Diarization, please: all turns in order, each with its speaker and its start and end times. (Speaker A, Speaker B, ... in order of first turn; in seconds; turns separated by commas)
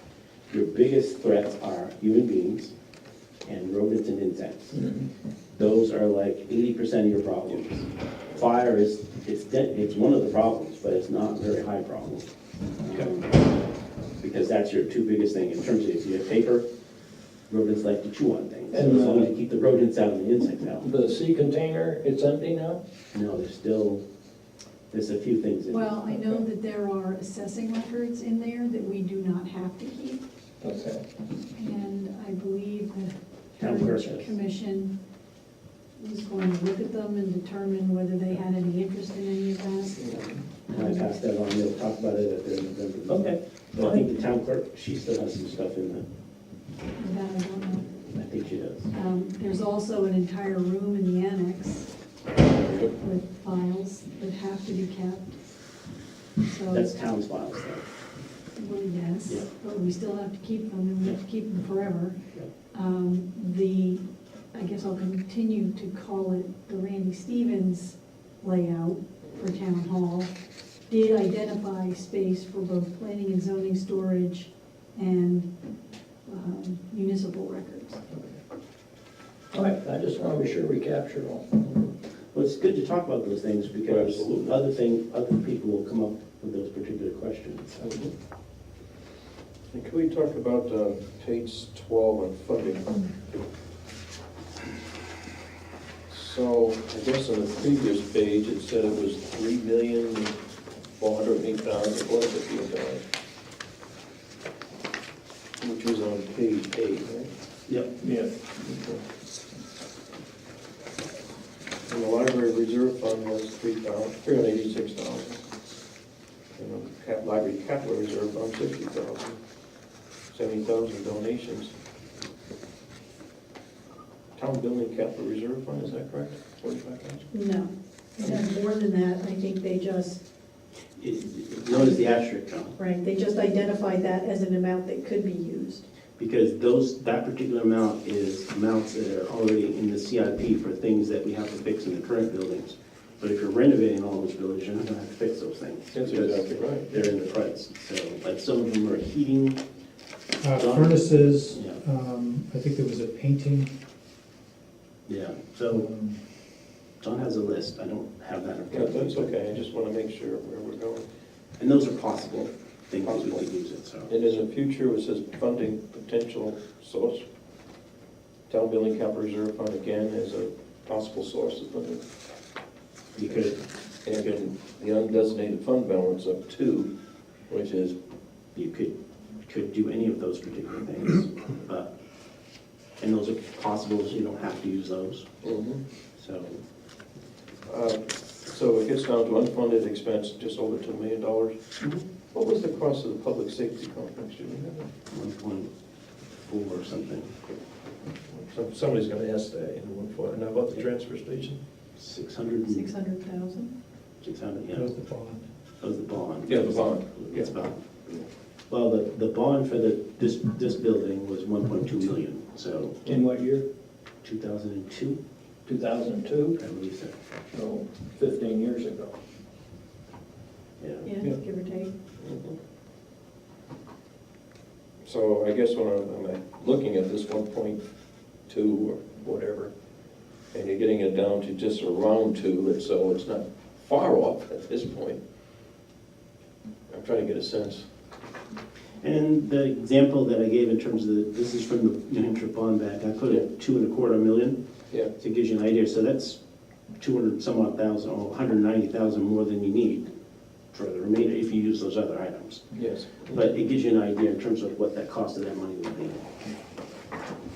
Speaker A: 0.5-2.7, Speaker A: 3.4-4.8, Speaker A: 5.6-12.3, Speaker A: 12.8-13.4, Speaker A: 14.2-16.6, Speaker A: 17.5-20.9, Speaker B: 18.7-19.3, Speaker B: 20.8-22.8, Speaker A: 23.1-24.0, Speaker A: 24.9-26.4, Speaker C: 25.7-30.2, Speaker B: 30.6-31.0, Speaker C: 31.6-34.9, Speaker A: 33.6-34.3, Speaker C: 36.0-40.0, Speaker D: 40.0-40.4, Speaker C: 40.7-41.1, Speaker A: 40.7-46.0, Speaker B: 43.1-44.0, Speaker C: 47.0-47.9, Speaker A: 48.1-48.9, Speaker C: 48.9-51.9, Speaker D: 52.6-52.9, Speaker C: 53.0-55.4, Speaker C: 56.4-56.9, Speaker A: 56.7-57.9, Speaker C: 58.5-62.2, Speaker C: 62.7-64.0, Speaker C: 64.5-70.3, Speaker C: 70.9-75.5, Speaker C: 76.2-78.0, Speaker B: 79.5-81.6, Speaker A: 82.3-87.9, Speaker D: 83.8-84.5, Speaker D: 87.8-88.1, Speaker D: 89.7-93.1, Speaker D: 96.1-100.3, Speaker D: 101.0-103.0, Speaker D: 105.6-107.3, Speaker A: 107.7-107.9, Speaker B: 108.0-108.4, Speaker D: 108.6-109.0, Speaker D: 111.8-115.4, Speaker D: 116.5-119.4, Speaker D: 120.3-121.7, Speaker D: 124.3-127.3, Speaker C: 127.3-130.2, Speaker A: 131.0-132.8, Speaker C: 132.8-135.8, Speaker A: 136.2-149.6, Speaker D: 145.9-147.0, Speaker E: 150.4-153.7, Speaker A: 150.6-151.8, Speaker A: 155.1-155.8, Speaker E: 155.7-156.2, Speaker A: 157.0-159.4, Speaker D: 158.7-161.1, Speaker A: 161.6-164.2, Speaker D: 163.0-163.4, Speaker D: 164.1-167.2, Speaker D: 168.5-172.0, Speaker A: 173.1-173.6, Speaker D: 174.0-176.9, Speaker D: 177.5-178.0, Speaker A: 178.5-178.9, Speaker A: 179.4-181.9, Speaker A: 183.0-185.3, Speaker D: 185.4-185.8, Speaker A: 186.1-186.6, Speaker D: 187.7-191.6, Speaker A: 191.8-192.0, Speaker D: 192.3-194.9, Speaker A: 195.1-195.7, Speaker A: 196.4-197.3, Speaker D: 198.3-201.6, Speaker A: 201.9-202.9, Speaker C: 202.7-203.7, Speaker A: 204.2-204.9, Speaker E: 204.7-205.4, Speaker A: 205.8-207.8, Speaker D: 206.4-207.5, Speaker A: 208.7-213.0, Speaker B: 213.0-213.6, Speaker A: 214.2-215.2, Speaker B: 215.7-216.6, Speaker A: 216.6-217.1, Speaker B: 217.5-219.1, Speaker A: 220.8-221.1, Speaker C: 221.0-221.9, Speaker D: 222.2-222.6, Speaker D: 225.0-227.8, Speaker D: 228.5-229.7, Speaker D: 230.5-235.2, Speaker D: 236.9-237.9, Speaker A: 239.0-244.6, Speaker A: 245.2-246.4, Speaker A: 247.0-250.1, Speaker A: 250.7-252.7, Speaker D: 252.8-253.3, Speaker A: 253.3-256.3